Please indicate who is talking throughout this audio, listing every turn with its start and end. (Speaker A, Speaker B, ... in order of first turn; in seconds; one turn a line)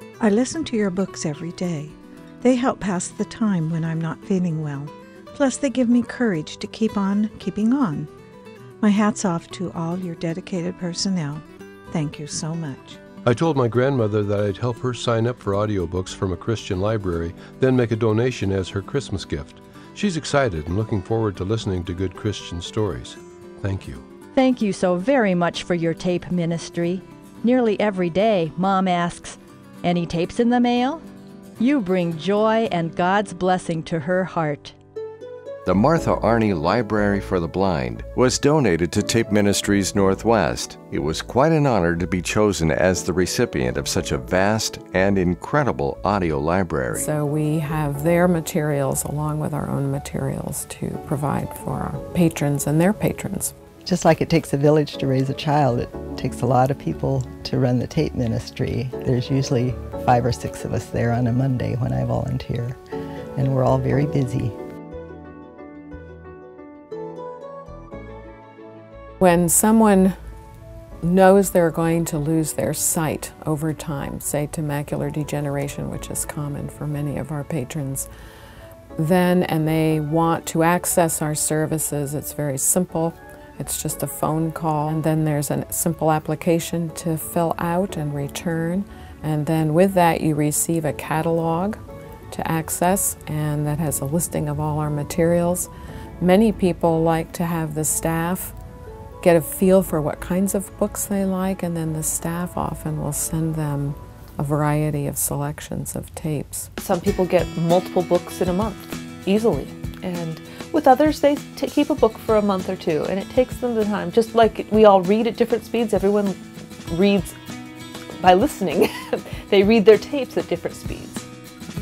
Speaker A: 0.2-8.1
Speaker A: 8.8-13.0
Speaker B: 13.3-24.0
Speaker C: 24.3-31.0
Speaker C: 31.6-34.7
Speaker D: 35.6-47.1
Speaker E: 46.9-53.5
Speaker F: 53.8-62.8
Speaker F: 63.4-64.5
Speaker E: 69.2-70.2
Speaker E: 71.0-78.1
Speaker E: 79.0-91.8
Speaker E: 92.3-95.7
Speaker E: 96.2-98.5
Speaker E: 99.2-106.7
Speaker G: 106.8-117.3
Speaker G: 118.2-121.3